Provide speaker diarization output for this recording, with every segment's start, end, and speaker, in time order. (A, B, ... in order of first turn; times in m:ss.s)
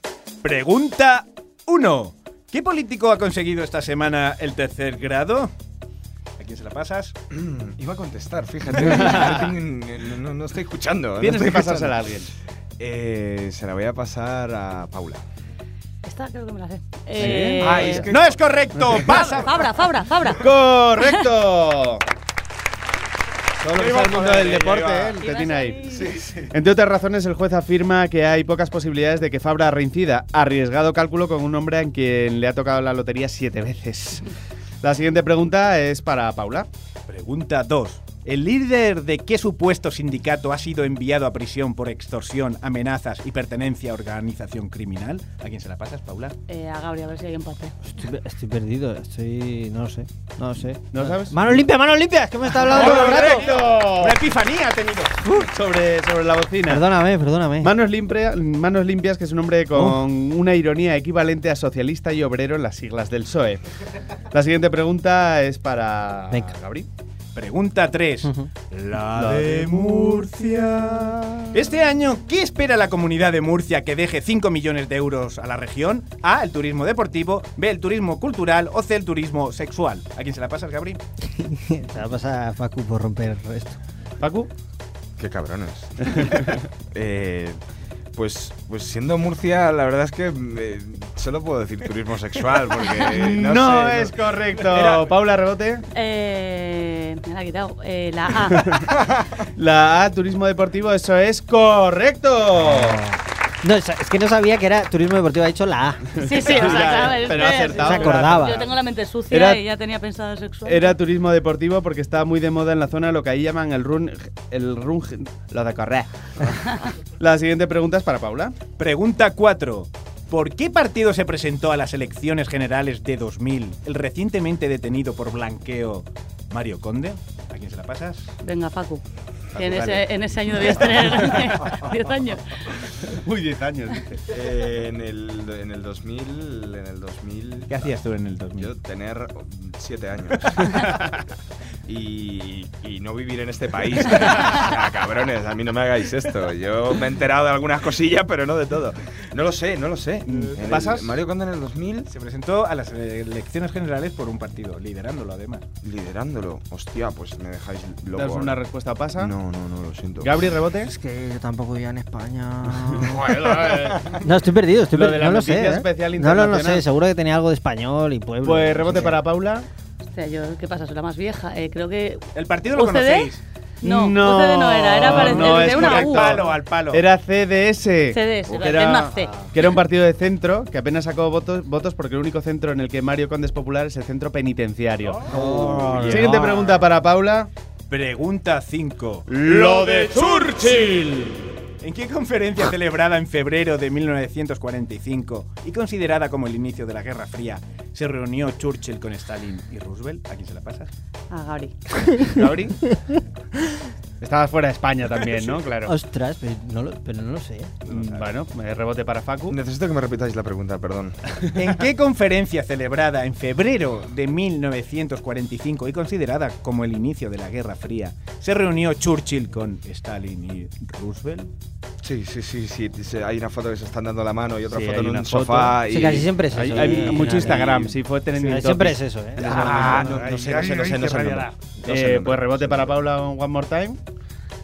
0:00.4-0:05.5 A
0:06.4-0:07.1 A
0:07.3-0:12.0 B
0:08.7-0:09.5 C
0:11.2-0:12.3 C
0:12.8-0:15.2 B
0:16.0-0:18.1 D
0:17.2-0:18.0 C
0:17.2-0:19.4 B
0:17.7-0:19.5 A
0:18.8-0:19.1 C
0:19.1-0:21.2 D
0:20.4-0:22.0 C
0:23.6-0:25.8 C
0:23.7-0:25.2 A
0:24.2-0:24.5 B
0:25.2-0:26.2 D
0:25.8-0:26.5 B
0:26.5-0:34.3 C
0:34.8-0:36.7 C
0:37.1-0:46.4 A
0:46.5-0:47.8 D
0:47.8-0:53.4 E
0:50.9-0:51.4 C
0:52.6-0:54.2 C
0:52.7-0:55.3 A
0:55.3-0:56.9 C
0:56.6-0:57.7 E
0:57.6-1:03.6 C
1:04.3-1:06.9 C
1:07.3-1:21.0 A
1:08.2-1:08.5 E
1:09.0-1:11.7 C
1:21.4-1:23.8 E
1:24.2-1:24.5 C
1:25.2-1:27.6 B
1:26.0-1:26.5 C
1:28.1-1:34.2 B
1:33.0-1:35.8 C
1:34.7-1:35.0 A
1:35.9-1:38.8 D
1:38.6-1:38.8 C
1:39.6-1:43.0 C
1:42.6-1:46.2 E
1:46.2-1:51.0 D
1:46.2-1:48.7 C
1:47.7-1:48.7 E
1:49.3-1:49.6 C
1:50.6-1:56.6 C
1:57.2-1:58.6 C
1:58.8-2:08.3 A
2:08.4-2:12.6 D
2:09.5-2:10.0 C
2:13.1-2:14.2 C
2:14.3-2:18.0 B
2:17.7-2:18.7 A
2:18.5-2:21.2 B
2:21.8-2:32.1 B
2:30.2-2:31.1 C
2:30.6-2:31.1 A
2:32.1-2:35.6 A
2:35.8-2:38.6 B
2:38.1-2:39.3 C
2:39.2-2:40.5 B
2:40.2-2:40.9 C
2:40.8-2:43.2 E
2:43.0-2:44.2 C
2:43.3-2:44.2 B
2:44.2-2:49.2 E
2:44.9-2:46.8 C
2:48.4-2:49.7 C
2:50.1-2:56.5 D
2:52.3-2:53.4 A
2:53.8-3:07.5 C
2:55.1-2:57.0 A
2:58.1-2:59.3 D
2:59.2-2:59.5 E
3:05.2-3:06.4 A
3:05.3-3:06.7 E
3:07.9-3:20.9 A
3:09.3-3:11.4 C
3:21.3-3:22.3 D
3:22.3-3:23.1 C
3:24.2-3:25.9 C
3:25.8-3:27.8 E
3:27.8-3:29.6 C
3:29.5-3:31.5 B
3:31.5-3:41.5 A
3:42.0-3:47.8 B
3:44.7-3:54.0 C
3:45.9-3:47.7 E
3:47.3-3:47.8 A
3:48.3-3:50.2 E
3:49.4-3:51.5 A
3:49.4-3:53.0 B